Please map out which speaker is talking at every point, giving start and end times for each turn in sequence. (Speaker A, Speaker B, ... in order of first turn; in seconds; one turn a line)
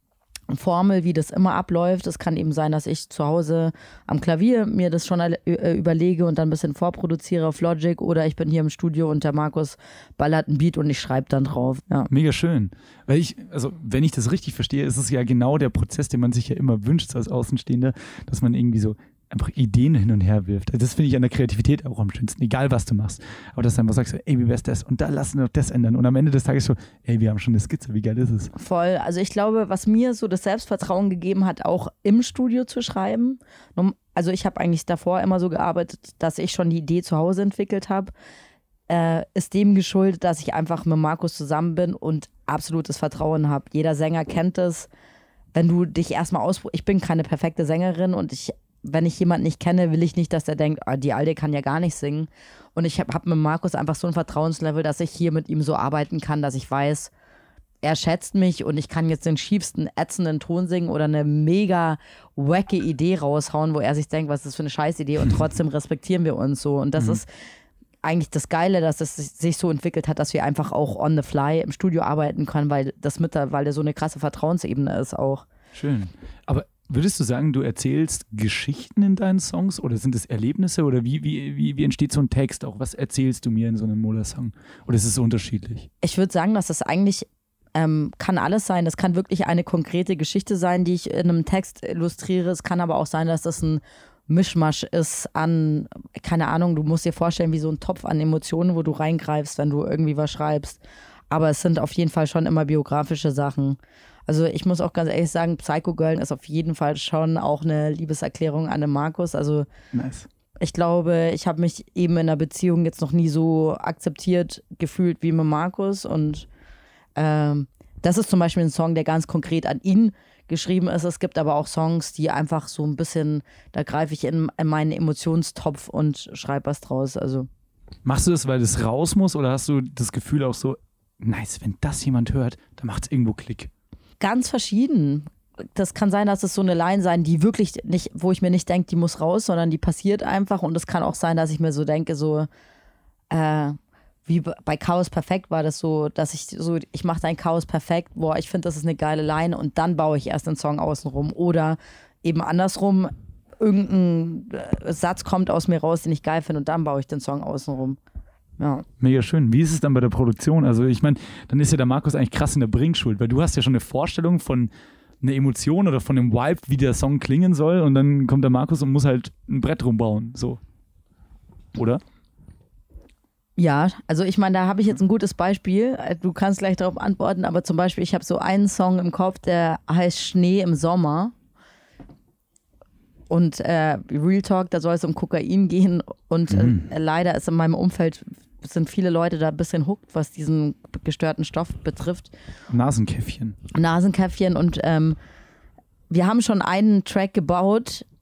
Speaker A: 0.5-12.1
Speaker B: 12.1-28.5
Speaker A: 28.6-38.1
Speaker A: 38.9-44.9
Speaker A: 45.5-57.1
Speaker A: 57.8-67.3
Speaker A: 68.0-75.5
Speaker B: 75.7-85.9
Speaker A: 86.0-100.8
Speaker A: 101.3-109.7
Speaker B: 109.9-110.3
Speaker A: 110.6-116.5
Speaker A: 117.2-127.5
Speaker B: 128.0-133.7
Speaker A: 134.2-142.5
Speaker A: 143.3-158.0
Speaker A: 158.6-158.8
Speaker B: 159.0-170.6
Speaker B: 171.8-172.0
Speaker A: 173.6-181.3
Speaker A: 183.3-192.3
Speaker B: 186.5-186.8
Speaker B: 192.7-193.6
Speaker A: 193.7-195.2
Speaker A: 196.1-198.1